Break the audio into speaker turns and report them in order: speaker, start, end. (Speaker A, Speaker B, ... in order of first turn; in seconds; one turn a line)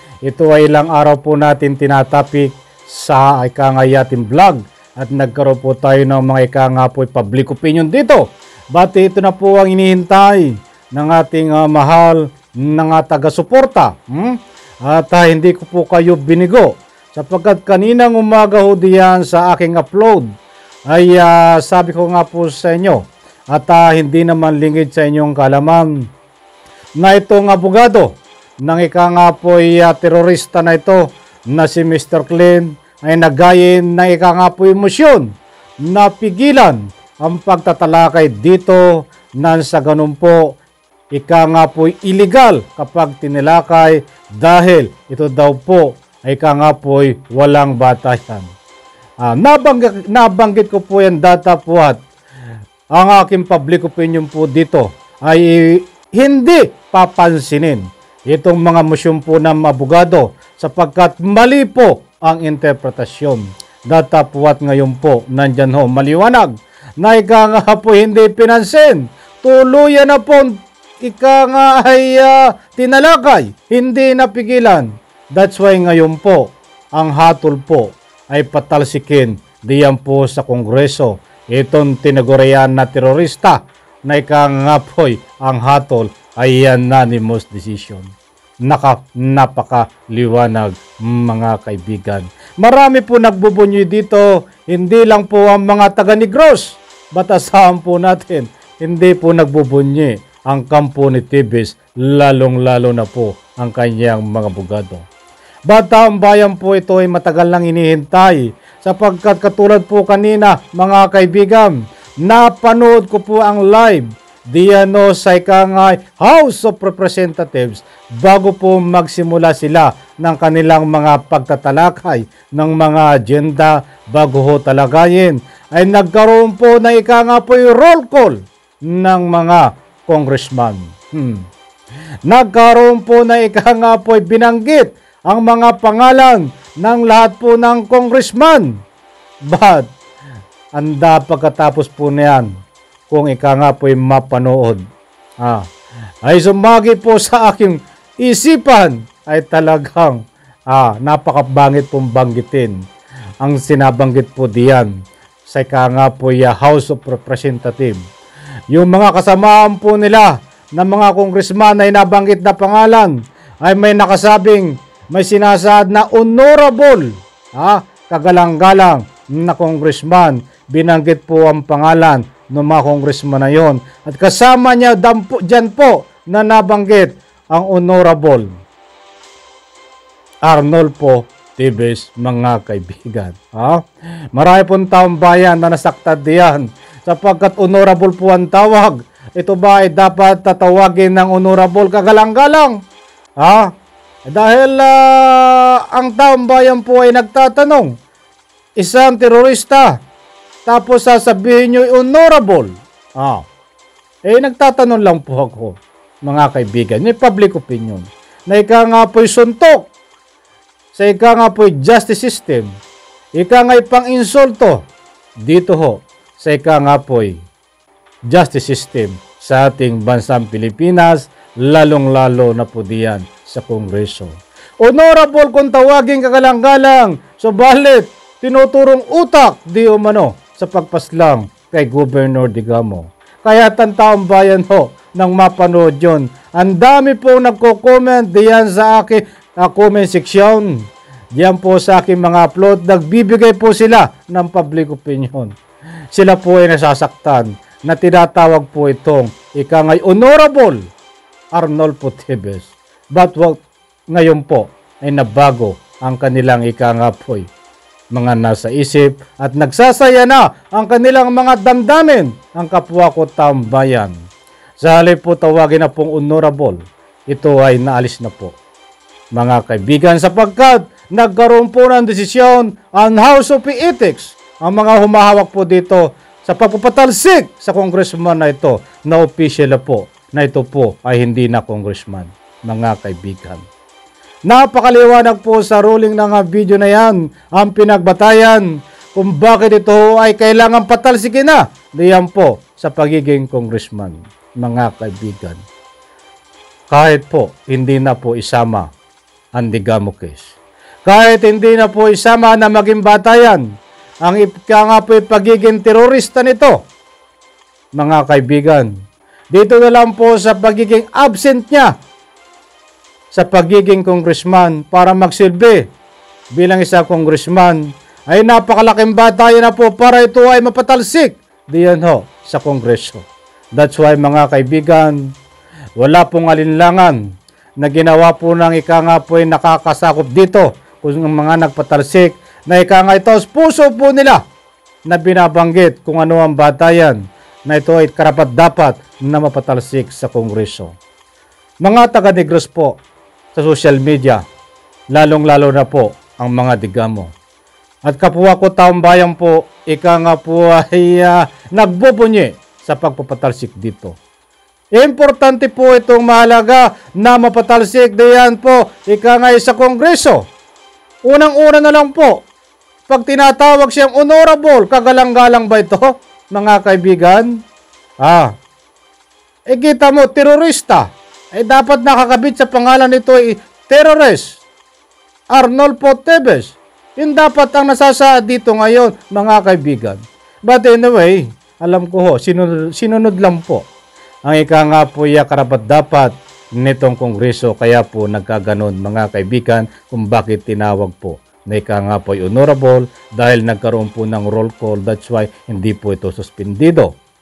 Speaker A: 0.2-20.3
Speaker A: 20.9-25.9
Speaker A: 27.0-31.0
Speaker A: 31.5-35.2
Speaker A: 35.9-40.6
Speaker A: 41.1-48.5
Speaker A: 49.2-52.0
Speaker A: 53.0-76.4
Speaker A: 77.0-83.6
Speaker A: 84.1-88.1
Speaker A: 88.7-105.0
Speaker A: 105.7-128.4
Speaker A: 128.9-131.4
Speaker A: 132.3-138.7
Speaker A: 139.5-139.9
Speaker A: 140.8-142.5
Speaker A: 143.1-144.8
Speaker A: 146.2-152.7
Speaker A: 153.4-154.9
Speaker A: 155.5-158.0
Speaker A: 158.7-178.4
Speaker A: 180.5-183.8
Speaker A: 184.3-192.8
Speaker A: 193.4-193.7
Speaker A: 194.3-197.9
Speaker A: 198.8-199.9
Speaker A: 200.7-203.4
Speaker A: 204.3-209.9
Speaker A: 210.9-212.7
Speaker A: 213.4-214.8
Speaker A: 215.5-217.3
Speaker A: 218.3-240.7
Speaker A: 241.4-245.5
Speaker A: 246.1-250.8
Speaker A: 251.5-253.6
Speaker A: 254.1-257.5
Speaker A: 258.1-264.1
Speaker A: 264.8-266.8
Speaker A: 267.3-268.5
Speaker A: 269.4-283.6
Speaker A: 284.5-295.6
Speaker A: 296.9-298.9
Speaker A: 299.6-300.5
Speaker A: 301.1-303.6
Speaker A: 304.2-306.7
Speaker A: 307.9-308.9
Speaker A: 309.5-311.9
Speaker A: 313.3-315.8
Speaker A: 316.6-323.2
Speaker A: 323.8-325.2
Speaker A: 326.0-327.2
Speaker A: 327.8-334.4
Speaker A: 335.1-340.9
Speaker A: 341.8-343.0
Speaker A: 343.5-344.4
Speaker A: 345.1-347.3
Speaker A: 348.1-354.2
Speaker A: 355.0-360.4
Speaker A: 361.3-362.4
Speaker A: 363.1-367.5
Speaker A: 368.2-368.5
Speaker A: 369.7-371.0
Speaker A: 371.5-374.6
Speaker A: 375.5-383.8
Speaker A: 384.5-386.3
Speaker A: 386.8-397.1